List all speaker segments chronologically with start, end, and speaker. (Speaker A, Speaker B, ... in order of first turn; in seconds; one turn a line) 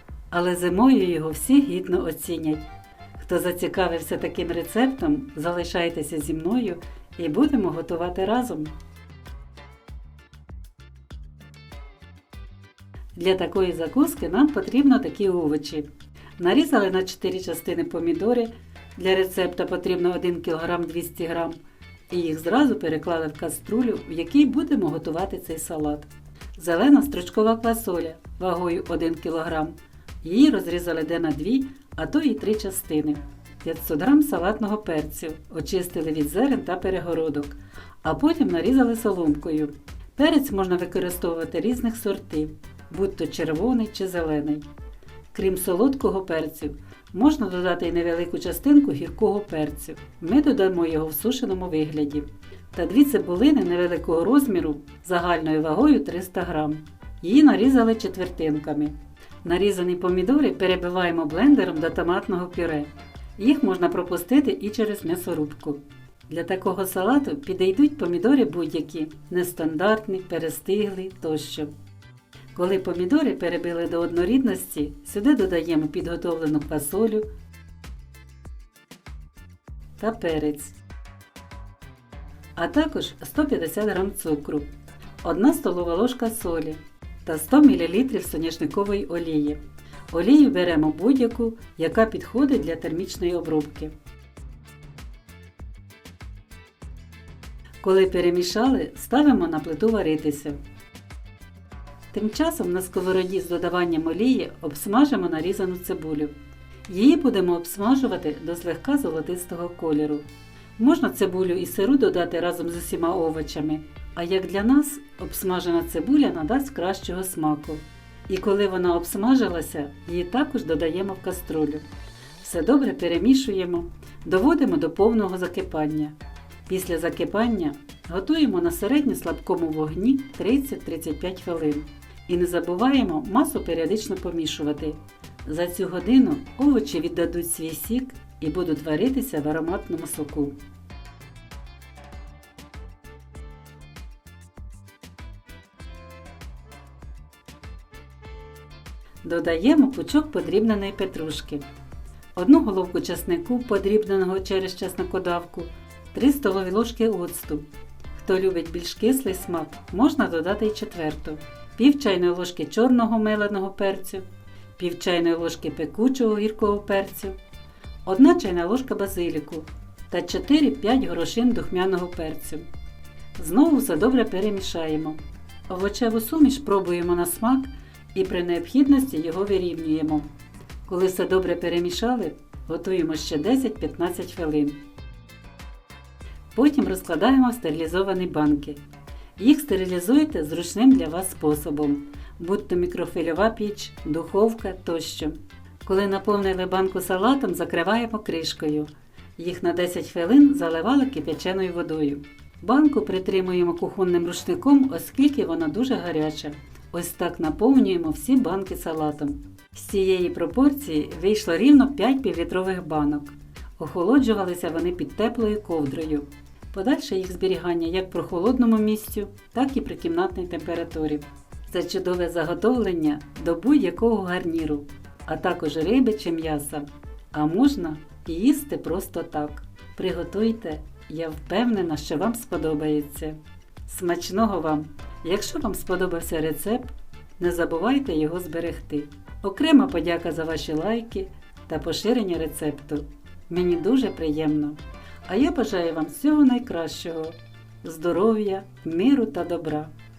Speaker A: 0.3-2.6
Speaker A: 3.2-8.7
Speaker A: 13.1-21.6
Speaker A: 22.1-44.6
Speaker A: 45.3-71.7
Speaker A: 72.5-77.3
Speaker A: 80.0-80.8
Speaker A: 82.5-84.7
Speaker A: 85.2-89.6
Speaker A: 90.1-93.9
Speaker A: 97.8-100.6
Speaker A: 102.1-106.3
Speaker A: 106.9-121.8
Speaker A: 122.4-126.2
Speaker A: 126.7-140.6
Speaker A: 149.2-151.6
Speaker A: 152.3-164.2
Speaker A: 164.8-167.4
Speaker A: 168.0-172.7
Speaker A: 173.3-180.3
Speaker A: 180.8-184.8
Speaker A: 186.5-188.8
Speaker A: 189.4-249.9